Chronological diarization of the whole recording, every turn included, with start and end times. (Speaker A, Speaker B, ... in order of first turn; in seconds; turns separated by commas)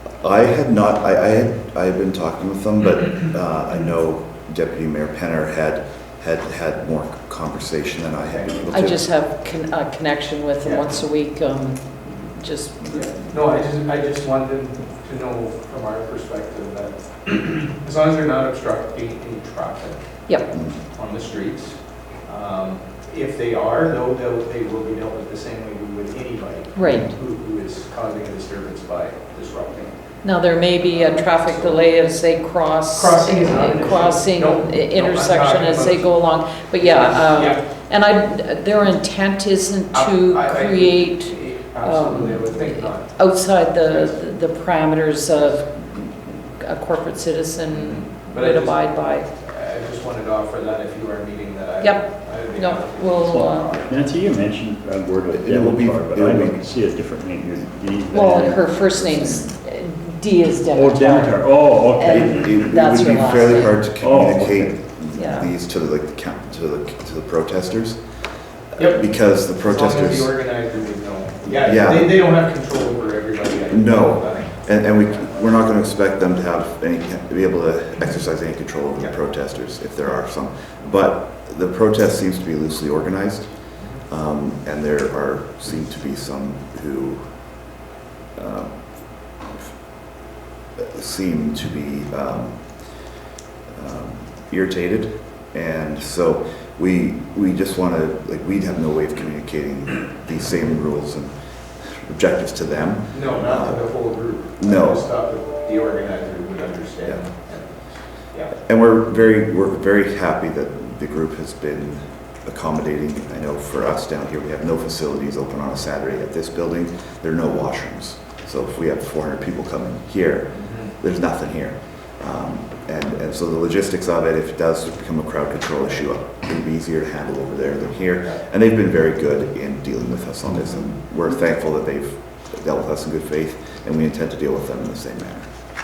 Speaker A: 0.2-9.1, Speaker B: 8.3-8.6, Speaker C: 8.7-13.3, Speaker B: 10.6-11.0, Speaker B: 12.9-20.0, Speaker B: 20.5-30.2, Speaker C: 26.8-27.1, Speaker C: 30.2-49.3, Speaker B: 30.8-31.8, Speaker B: 32.9-36.1, Speaker B: 36.8-37.6, Speaker B: 39.9-43.2, Speaker B: 43.8-44.2, Speaker B: 47.7-53.9, Speaker C: 51.8-53.8, Speaker D: 53.3-59.5, Speaker A: 55.3-56.6, Speaker C: 58.1-63.8, Speaker D: 60.7-64.8, Speaker A: 62.1-68.0, Speaker C: 65.1-65.5, Speaker B: 68.8-69.0, Speaker A: 68.8-70.3, Speaker B: 69.6-74.7, Speaker A: 71.6-72.1, Speaker A: 73.7-87.7, Speaker A: 88.3-89.7, Speaker A: 90.8-93.2, Speaker A: 93.7-101.3, Speaker A: 101.9-103.9, Speaker B: 103.1-108.5, Speaker A: 104.6-105.0, Speaker A: 108.7-135.5, Speaker B: 120.5-120.9